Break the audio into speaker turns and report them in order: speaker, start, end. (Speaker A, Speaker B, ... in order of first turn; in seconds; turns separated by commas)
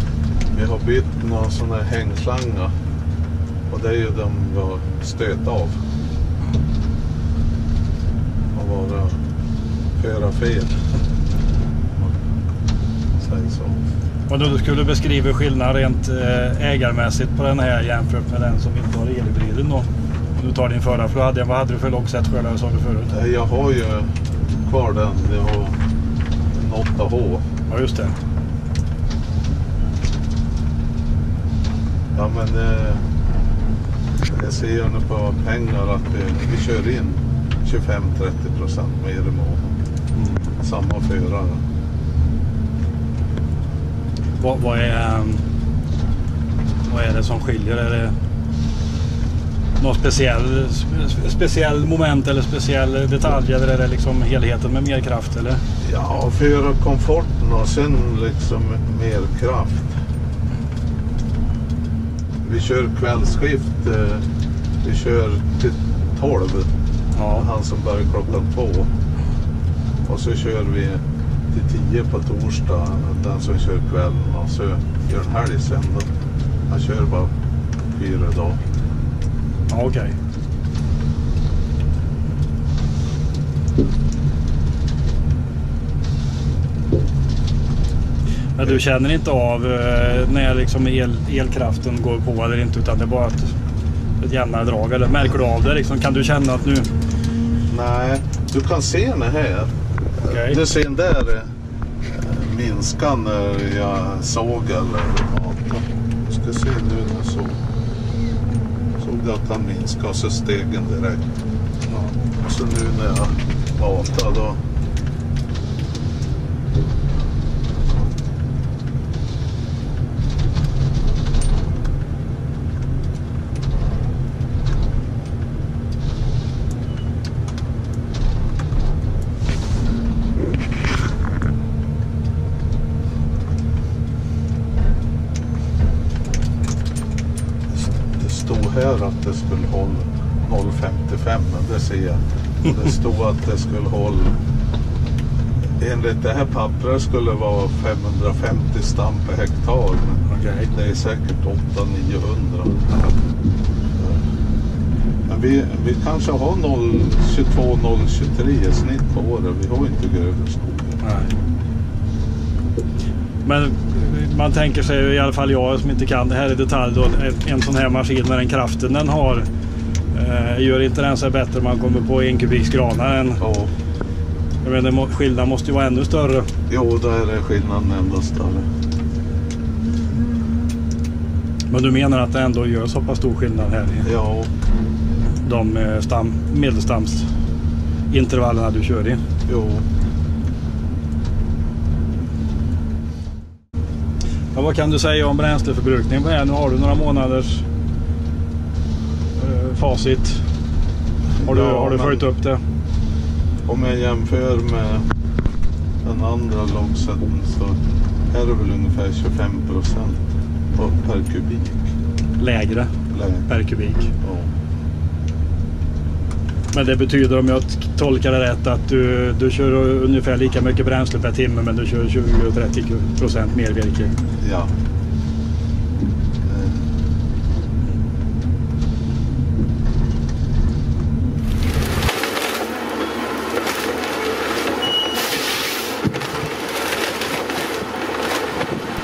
Speaker A: 0.5-2.7, Speaker A: 3.7-5.8, Speaker A: 8.5-9.2, Speaker A: 9.9-10.8, Speaker A: 13.2-13.8, Speaker B: 14.3-23.1, Speaker A: 23.1-24.1, Speaker A: 24.6-25.8, Speaker A: 26.5-27.4, Speaker B: 27.7-28.1, Speaker A: 32.1-33.0, Speaker A: 34.3-39.7, Speaker B: 40.1-40.4, Speaker A: 40.6-41.6, Speaker B: 44.4-45.4, Speaker B: 46.9-48.1, Speaker B: 49.8-55.6, Speaker A: 55.8-59.9, Speaker A: 62.4-64.2, Speaker A: 64.8-66.7, Speaker B: 67.1-67.5, Speaker A: 67.3-68.9, Speaker A: 70.0-71.0, Speaker A: 71.5-76.0, Speaker A: 76.7-77.3, Speaker A: 77.9-78.6, Speaker B: 79.7-80.1, Speaker B: 88.5-93.5, Speaker B: 94.2-96.9, Speaker A: 97.7-101.5, Speaker B: 100.2-100.6, Speaker A: 102.0-107.6, Speaker A: 109.0-111.2, Speaker A: 112.4-114.6, Speaker A: 137.7-144.3, Speaker A: 145.8-153.1, Speaker B: 150.3-150.7, Speaker A: 153.9-154.2, Speaker A: 155.3-161.0, Speaker B: 161.0-161.3, Speaker B: 163.4-169.5, Speaker B: 170.1-173.4, Speaker A: 173.4-173.7, Speaker B: 174.6-176.5, Speaker A: 176.7-178.6, Speaker B: 181.7-184.1, Speaker A: 184.0-184.5, Speaker B: 185.4-187.3, Speaker B: 188.1-189.2, Speaker A: 189.5-189.8, Speaker B: 194.5-197.6, Speaker B: 199.3-200.4, Speaker A: 201.3-202.3, Speaker B: 201.4-202.6, Speaker A: 203.7-205.1, Speaker A: 206.0-207.8, Speaker A: 208.3-210.2, Speaker A: 210.7-211.9, Speaker B: 212.4-212.9, Speaker A: 213.1-213.5, Speaker B: 213.5-214.1, Speaker A: 214.2-214.5, Speaker B: 216.7-224.1, Speaker A: 224.4-224.7, Speaker A: 226.4-226.8